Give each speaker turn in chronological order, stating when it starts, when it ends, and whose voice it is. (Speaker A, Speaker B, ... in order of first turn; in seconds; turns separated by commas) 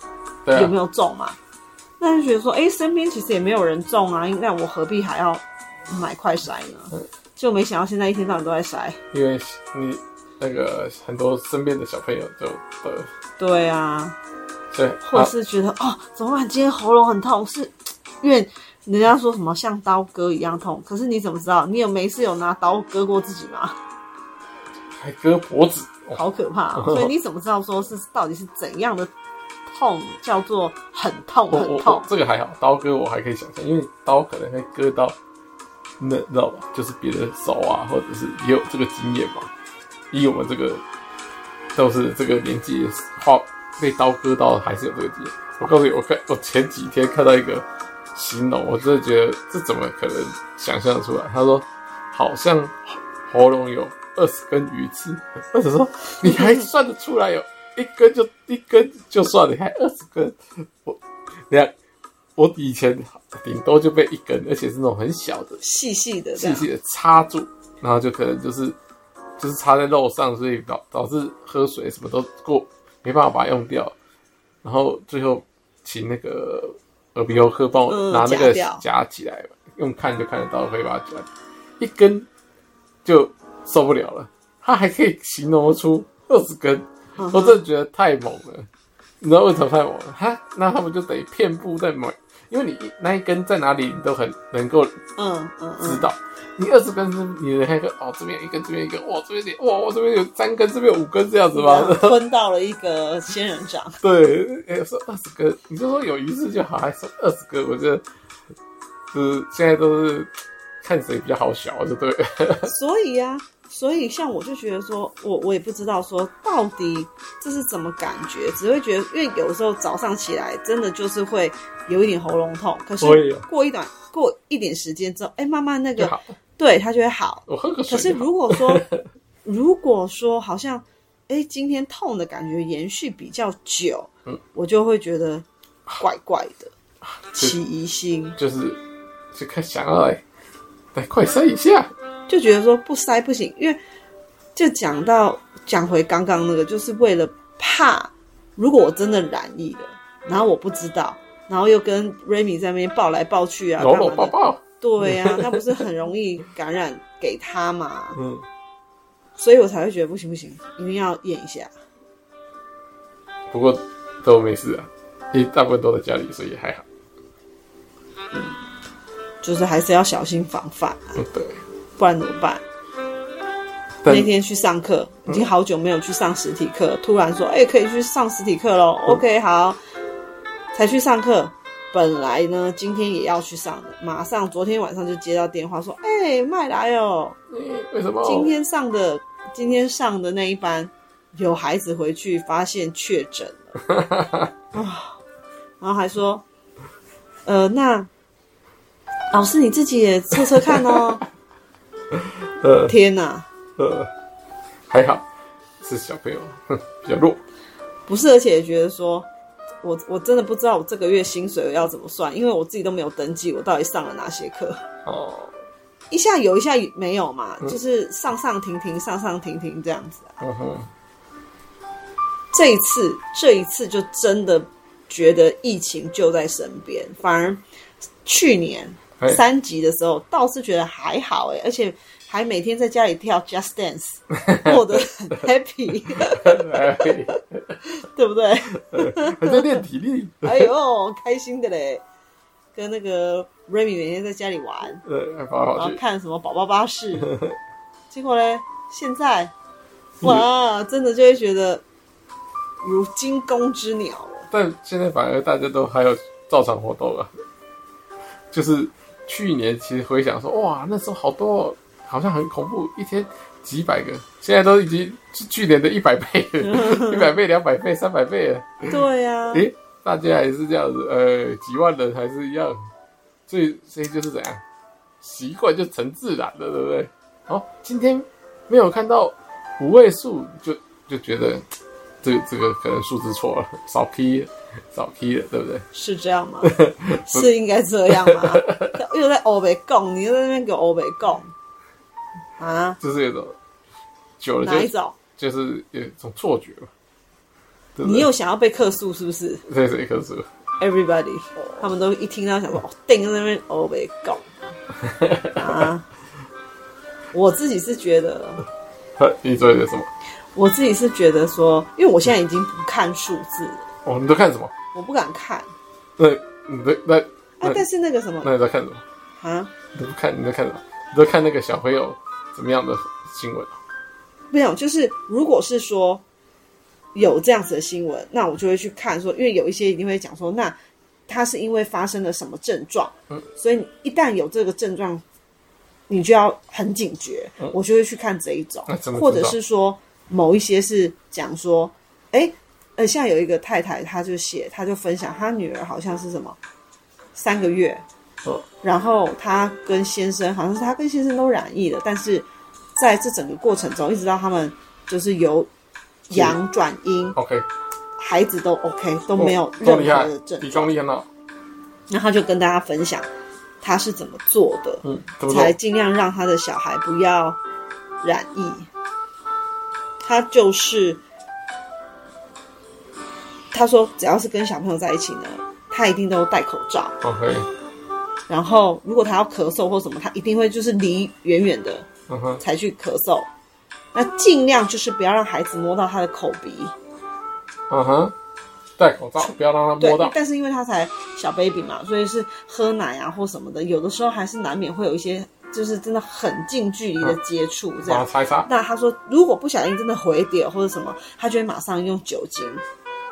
Speaker A: 0.5-0.7, Speaker B: 0.5-1.4, Speaker B: 2.0-9.0, Speaker A: 9.1-13.1, Speaker B: 13.4-14.2, Speaker A: 14.7-15.3, Speaker B: 15.0-23.8, Speaker A: 24.9-26.2, Speaker B: 26.1-29.1, Speaker A: 26.8-27.1, Speaker B: 29.7-32.1, Speaker A: 31.5-35.1, Speaker A: 36.0-39.5, Speaker A: 40.1-40.8, Speaker A: 41.7-61.7, Speaker B: 56.2-56.6, Speaker A: 62.4-65.6, Speaker B: 65.6-66.7, Speaker A: 66.3-68.8, Speaker A: 69.4-73.9, Speaker A: 74.6-81.3, Speaker B: 77.9-78.8, Speaker A: 81.8-82.3, Speaker A: 83.0-88.7, Speaker B: 87.2-87.6, Speaker A: 89.2-95.0, Speaker B: 95.2-96.1, Speaker A: 95.8-102.2, Speaker B: 101.5-104.0, Speaker A: 104.0-108.0, Speaker A: 109.1-110.3, Speaker A: 110.8-112.7, Speaker B: 112.7-128.9, Speaker A: 123.0-123.4, Speaker A: 126.0-126.3, Speaker A: 127.5-129.0, Speaker B: 129.4-135.4, Speaker B: 136.0-136.7, Speaker A: 137.0-137.5, Speaker B: 137.3-138.4, Speaker A: 138.4-138.8, Speaker A: 139.3-140.2, Speaker A: 140.9-141.9, Speaker B: 142.3-143.8, Speaker B: 144.5-158.2, Speaker A: 153.8-155.8, Speaker A: 158.2-158.4, Speaker B: 159.4-161.7, Speaker A: 163.5-166.8, Speaker B: 169.4-171.2, Speaker A: 171.2-171.6, Speaker B: 172.0-172.6, Speaker A: 174.0-174.3, Speaker B: 174.1-179.8, Speaker B: 180.7-187.4, Speaker A: 187.5-188.5, Speaker B: 188.2-193.8, Speaker A: 193.9-194.5, Speaker B: 194.7-195.2, Speaker B: 195.8-196.4, Speaker B: 197.4-198.1, Speaker B: 199.3-201.2, Speaker A: 200.6-201.2, Speaker A: 202.1-202.9, Speaker B: 202.9-203.4, Speaker A: 203.8-204.1, Speaker A: 204.9-205.2, Speaker A: 205.8-207.4, Speaker B: 208.1-209.3, Speaker B: 209.8-214.9, Speaker A: 215.1-215.5, Speaker B: 216.1-220.4, Speaker A: 220.4-220.9, Speaker B: 222.5-227.6, Speaker B: 228.2-239.8, Speaker A: 234.3-235.0, Speaker A: 236.1-237.8, Speaker A: 238.9-240.7, Speaker B: 240.4-242.0, Speaker B: 242.7-245.0, Speaker A: 245.0-246.0, Speaker B: 245.7-247.4, Speaker A: 247.2-247.5, Speaker B: 248.1-249.5, Speaker B: 250.2-251.8, Speaker B: 252.8-254.5, Speaker A: 254.5-257.3, Speaker A: 258.5-269.0, Speaker B: 266.6-267.3, Speaker B: 268.9-269.6, Speaker A: 269.5-272.8, Speaker A: 273.5-274.6, Speaker A: 275.2-281.6, Speaker A: 282.2-285.9, Speaker B: 285.9-291.5, Speaker A: 286.6-287.5, Speaker A: 288.1-288.9, Speaker B: 292.6-293.0, Speaker A: 293.0-293.6, Speaker A: 294.4-296.9, Speaker B: 294.6-295.2, Speaker A: 297.9-298.3, Speaker B: 298.0-299.6, Speaker A: 299.6-300.5, Speaker B: 300.8-304.4, Speaker A: 305.0-305.8, Speaker B: 305.5-306.0, Speaker B: 307.3-308.6, Speaker A: 309.2-310.1, Speaker B: 310.5-313.9, Speaker A: 314.0-314.7, Speaker B: 314.9-315.7, Speaker A: 316.2-317.8, Speaker B: 317.6-318.5, Speaker A: 318.4-319.0, Speaker B: 319.4-319.7, Speaker A: 319.9-323.8, Speaker B: 324.5-326.2, Speaker B: 327.1-330.8, Speaker B: 331.3-335.2, Speaker B: 336.1-346.6, Speaker A: 338.9-339.5, Speaker B: 347.3-348.0, Speaker B: 348.8-355.7, Speaker B: 356.3-357.4, Speaker A: 356.3-356.6, Speaker A: 357.3-357.6, Speaker B: 358.2-360.9, Speaker A: 359.4-361.3, Speaker B: 362.1-363.3, Speaker B: 363.8-367.6, Speaker A: 365.0-365.7, Speaker B: 368.2-368.9, Speaker B: 370.2-371.2, Speaker B: 373.7-377.2, Speaker A: 377.2-377.7, Speaker B: 378.5-382.1, Speaker A: 382.3-382.6, Speaker B: 382.6-383.5, Speaker B: 384.1-386.9, Speaker A: 387.9-388.3, Speaker A: 389.0-390.3, Speaker B: 389.4-402.8, Speaker A: 398.1-398.7